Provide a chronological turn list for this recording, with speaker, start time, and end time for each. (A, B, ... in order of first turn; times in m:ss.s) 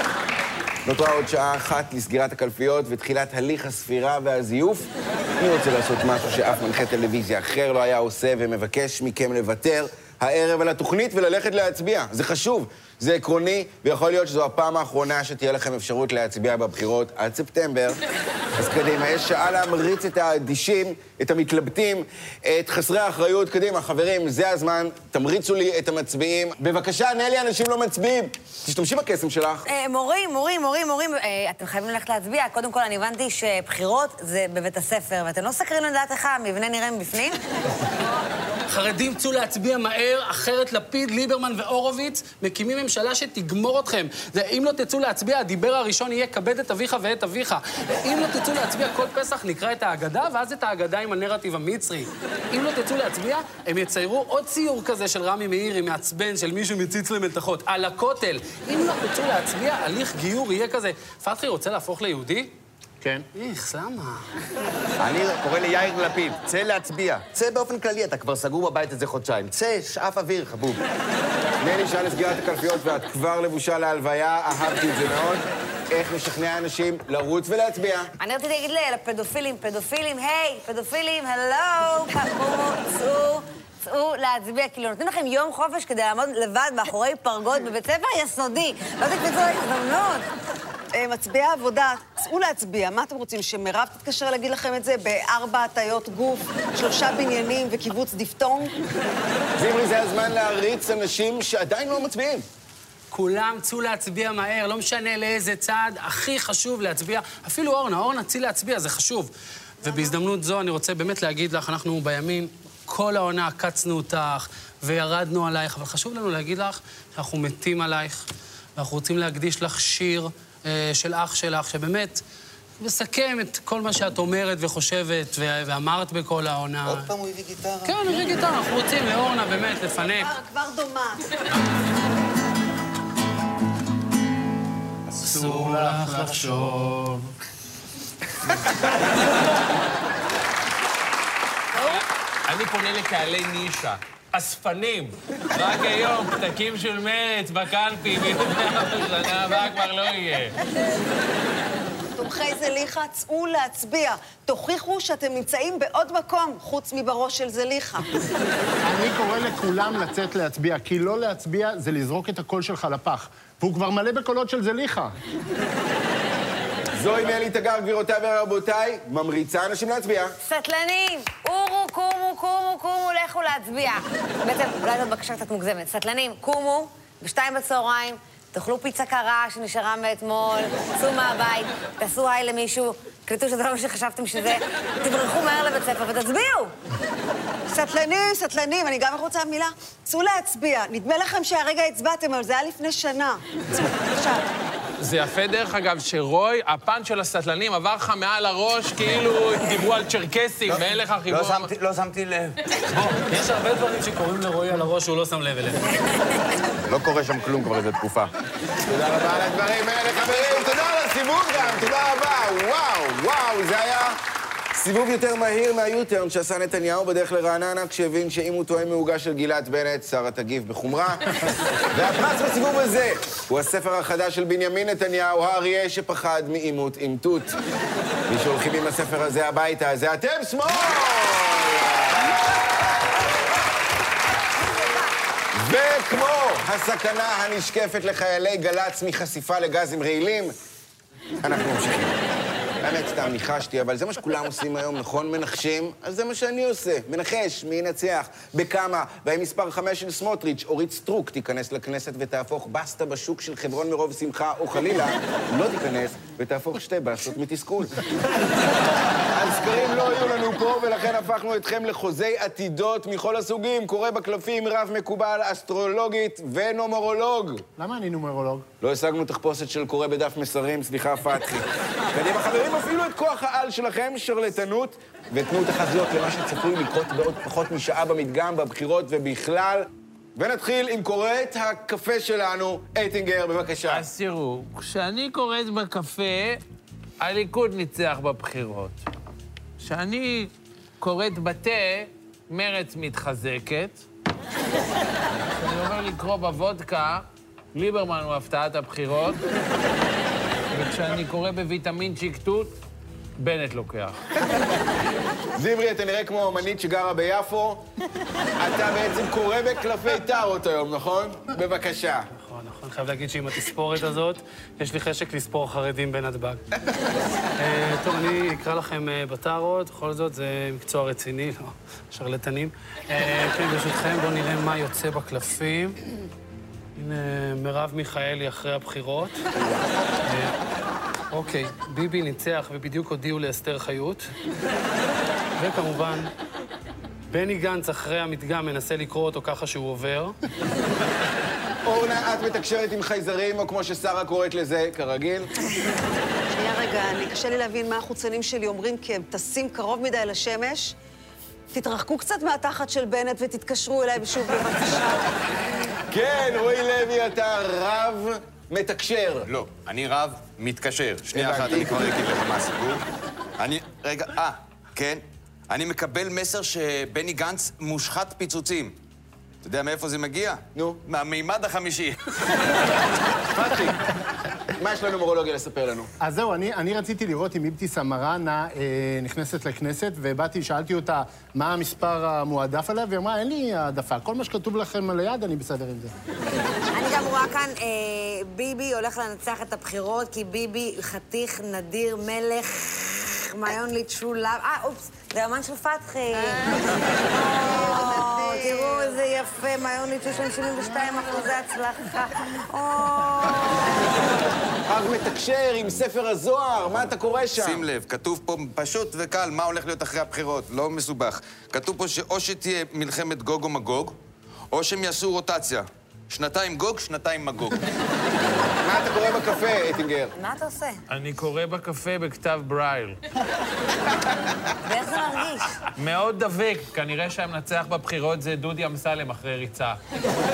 0:00.8-0:18.0 A
0:18.6-0:29.6 A
0:29.6-0:37.4 B
0:38.7-1:02.5 C
1:03.3-1:04.3 C
1:05.0-1:10.8 D
1:11.6-1:18.1 A
1:18.2-1:30.3 B
1:30.9-1:38.7 E
1:39.6-1:42.4 A
1:43.1-1:58.2 C
1:58.8-2:02.2 C
2:02.8-2:07.1 C
2:06.8-2:07.9 D
2:07.8-2:10.3 C
2:10.2-2:11.3 E
2:15.1-2:17.3 F
2:15.2-2:16.5 C
2:21.8-2:30.6 G
2:32.2-2:38.1 E
2:38.8-2:45.1 F
2:47.0-2:50.3 A
2:50.4-3:06.7 B
3:07.7-3:14.4 E
3:15.0-3:21.7 G
3:20.7-3:23.2 D
3:22.9-3:25.9 C
3:26.8-3:28.3 D
3:28.8-3:34.2 A
3:34.7-3:47.6 A
3:48.3-3:52.4 A
3:54.6-3:55.0 B
3:55.5-4:00.5 A
4:01.4-4:02.2 A
4:02.8-4:18.0 A
4:19.2-4:27.6 A
4:27.8-4:28.6 F
4:28.8-4:44.0 A
4:43.8-4:46.6 G
4:47.2-4:49.0 G
4:49.8-4:54.0 G
4:55.5-4:59.4 G
5:00.7-5:02.7 G
5:03.4-5:04.2 G
5:05.5-5:07.8 A
5:08.6-5:12.3 A
5:12.3-5:16.6 C
5:17.6-5:26.0 C
5:27.0-5:29.4 C
5:30.2-5:30.5 C
5:31.3-5:34.3 C
5:35.6-5:36.3 C
5:37.3-5:40.4 C
5:41.8-5:45.5 A
5:46.5-5:50.9 E
5:51.7-5:55.3 E
5:56.1-5:59.5 A
5:59.4-6:03.0 D
6:01.3-6:02.1 A
6:03.6-6:09.0 D
6:09.6-6:12.2 D
6:10.7-6:11.0 A
6:13.6-6:14.0 A
6:14.7-6:16.1 A
6:16.2-6:26.1 F
6:26.9-6:44.3 B
6:36.5-6:39.2 E
6:44.9-6:47.9 A
6:47.6-6:54.2 D
6:54.7-6:57.8 D
6:58.8-7:00.3 A
7:00.4-7:01.0 B
7:01.1-7:03.2 G
7:04.8-7:05.8 B
7:05.9-7:10.0 G